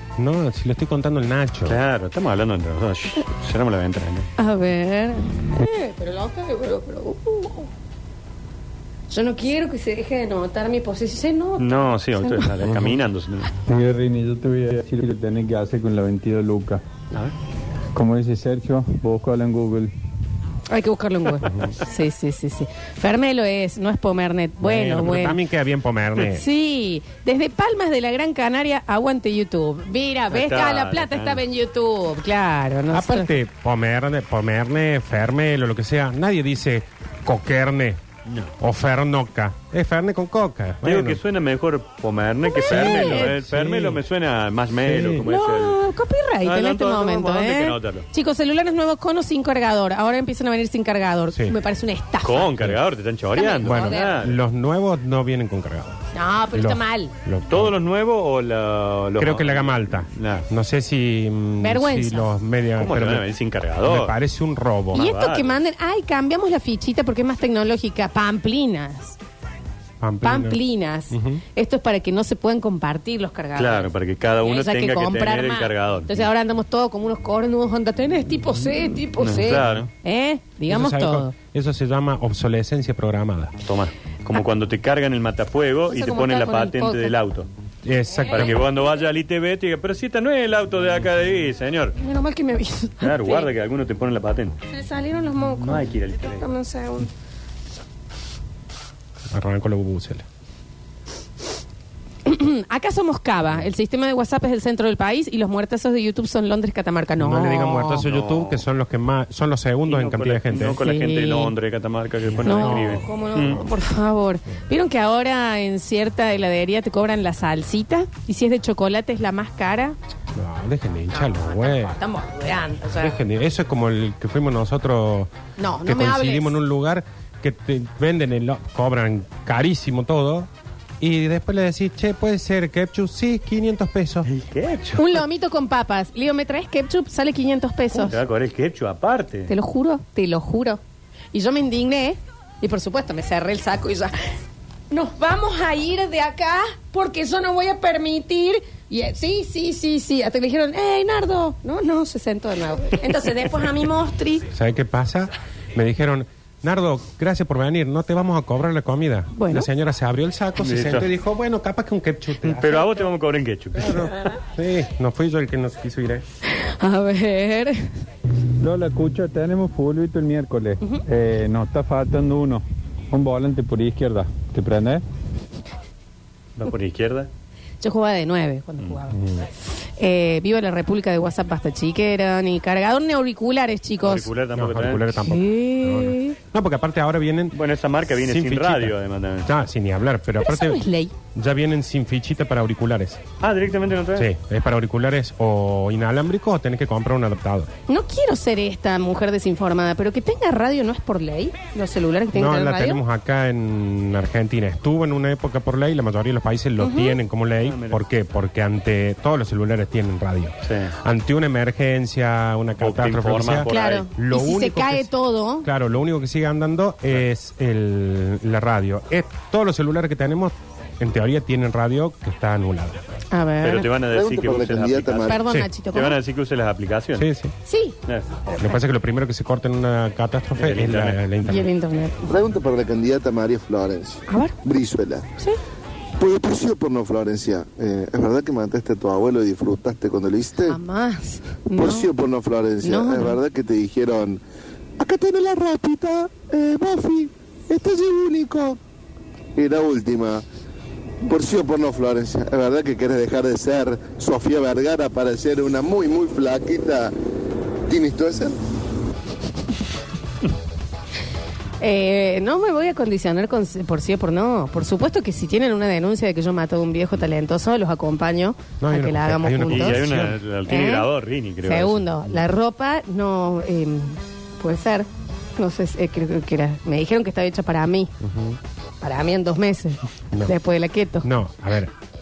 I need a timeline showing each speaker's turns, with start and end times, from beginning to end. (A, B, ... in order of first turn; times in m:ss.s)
0:00.2-0:01.8 A
0:01.7-0:04.3 B
0:04.4-0:07.7 C
0:09.1-0:12.5 C
0:11.6-0:13.5 B
0:13.7-0:16.8 D
0:18.0-0:19.9 D
0:20.7-0:25.4 C
0:24.8-0:26.4 A
0:26.3-0:33.3 C
0:30.3-0:31.4 B
0:32.9-0:38.0 A
0:38.3-0:38.5 B
0:38.6-0:41.2 A
0:40.8-0:45.8 B
0:42.5-0:43.4 C
0:42.6-0:44.0 A
0:44.9-0:45.3 A
0:45.2-0:52.5 C
0:46.4-0:48.1 B
0:52.2-0:54.4 B
0:53.4-0:54.2 C
0:53.6-0:56.0 A
0:56.1-0:57.1 C
0:56.5-0:57.8 A
0:57.5-1:00.5 B
0:59.2-1:03.3 A
1:01.6-1:02.3 C
1:02.8-1:04.2 B
1:03.8-1:05.0 A
1:04.9-1:05.5 B
1:05.0-1:09.2 C
1:10.0-1:10.6 A
1:10.2-1:21.3 C
1:11.1-1:11.4 A
1:13.6-1:16.3 B
1:19.2-1:19.9 B
1:20.7-1:23.5 A
1:23.6-1:27.5 B
1:25.9-1:27.1 C
1:27.8-1:28.6 A
1:28.1-1:28.5 C
1:28.3-1:32.0 B
1:32.0-1:33.5 C
1:33.0-1:34.6 B
1:34.7-1:37.1 C
1:35.6-1:36.4 B
1:39.3-1:40.2 A
1:42.3-1:48.0 C
1:47.2-1:50.8 A
1:48.0-1:48.6 B
1:49.9-1:53.6 B
1:50.6-1:51.5 C
1:52.4-2:00.0 C
1:52.5-1:53.0 A
2:00.4-2:01.9 A
2:01.1-2:03.2 C
2:03.0-2:05.3 A
2:05.6-2:06.6 C
2:05.9-2:10.5 A
2:11.0-2:14.3 A
2:14.3-2:15.1 B
2:15.0-2:18.2 C
2:17.9-2:19.5 B
2:19.5-2:20.8 C
2:21.3-2:24.1 C
2:24.9-2:34.5 C
2:34.5-2:43.0 A
2:39.3-2:39.7 C
2:40.6-2:41.1 B
2:42.4-2:44.3 B
2:43.8-2:46.2 A
2:46.6-2:47.8 C
2:48.6-2:55.0 D
2:56.6-2:57.3 B
2:57.8-2:59.2 C
3:00.0-3:04.3 C
3:04.0-3:05.3 B
3:04.5-3:07.6 A
3:05.3-3:06.4 C
3:07.5-3:09.5 B
3:08.2-3:10.8 A
3:10.4-3:11.1 C
3:11.4-3:13.2 A
3:13.4-3:14.3 B
3:14.2-3:17.7 A
3:17.9-3:23.0 C
3:22.3-3:35.1 A
3:26.8-3:27.2 C
3:27.6-3:28.0 B
3:30.6-3:30.9 B
3:32.8-3:34.1 B
3:33.7-3:35.7 C
3:35.6-3:43.0 A
3:43.3-3:43.9 C
3:43.6-3:47.3 B
3:44.0-3:45.5 E
3:45.3-3:46.2 C
3:47.2-3:47.5 A
3:47.6-3:48.0 C
3:48.6-3:51.7 A
3:50.6-3:51.2 B
3:51.4-3:52.2 C
3:52.2-3:55.3 E
3:54.3-3:54.6 C
3:56.2-4:00.8 E
4:00.6-4:02.1 C
4:01.8-4:04.4 E
4:02.8-4:03.4 C
4:05.0-4:08.8 E
4:09.6-4:10.4 E
4:11.2-4:17.1 E
4:17.9-4:18.6 E
4:21.8-4:30.1 C
4:28.8-4:30.4 A
4:29.7-4:32.1 B
4:30.7-4:31.1 C
4:31.6-4:38.1 C
4:38.2-4:38.6 A
4:39.0-4:41.3 C
4:41.2-4:41.9 A